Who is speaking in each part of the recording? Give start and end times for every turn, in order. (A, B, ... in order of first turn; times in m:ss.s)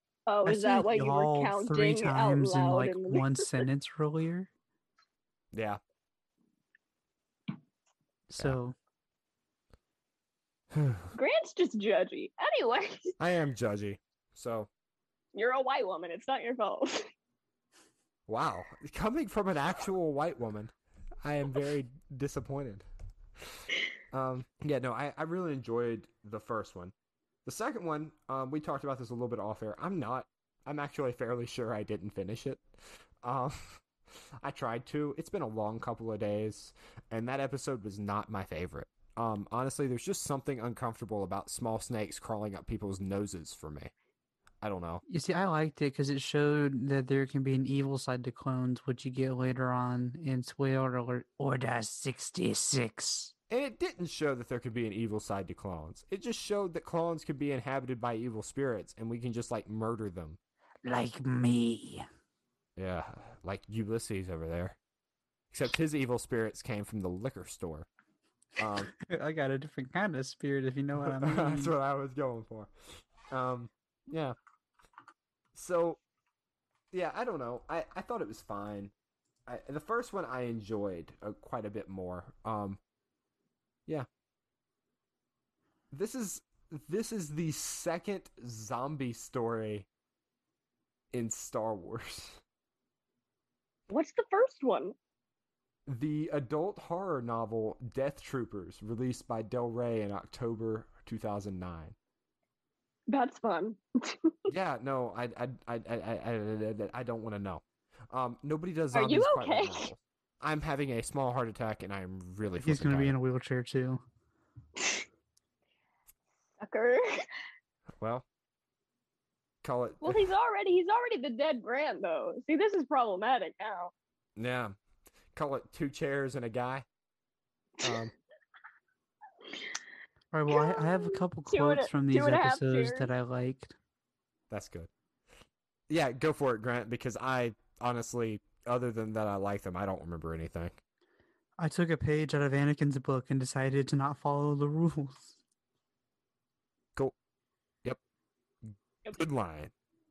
0:00.3-0:03.4 A
0:00.5-0:04.5 B
0:05.5-0:05.8 C
0:08.3-0:08.8 B
0:10.7-0:11.1 C
0:11.1-0:13.1 A
0:13.2-0:14.7 C
0:15.4-0:17.1 A
0:18.3-0:22.8 C
0:23.4-0:26.9 C
0:27.4-0:32.7 C
0:33.2-0:33.8 C
0:34.4-0:43.9 C
0:44.6-0:45.0 C
0:45.1-0:53.3 B
0:53.5-1:00.4 C
1:00.8-1:02.1 B
1:02.8-1:04.8 C
1:05.5-1:07.9 C
1:08.6-1:08.9 C
1:09.0-1:11.7 B
1:11.0-1:12.7 C
1:13.3-1:14.4 C
1:15.5-1:16.0 C
1:16.9-1:18.9 C
1:19.5-1:22.8 C
1:25.9-1:29.9 C
1:31.1-1:32.4 C
1:33.9-1:35.0 A
1:35.9-1:42.0 C
1:43.1-1:44.5 A
1:44.5-1:53.2 C
1:48.9-1:49.9 A
1:52.6-1:54.0 B
1:56.6-1:57.2 A
1:58.0-1:58.3 C
1:59.6-2:00.2 C
2:00.0-2:03.9 A
2:04.4-2:04.8 C
2:05.3-2:06.8 C
2:07.8-2:08.1 C
2:10.3-2:13.7 B
2:10.5-2:13.1 A
2:14.5-2:14.9 C
2:15.9-2:20.8 C
2:21.6-2:25.4 B
2:28.7-2:29.7 C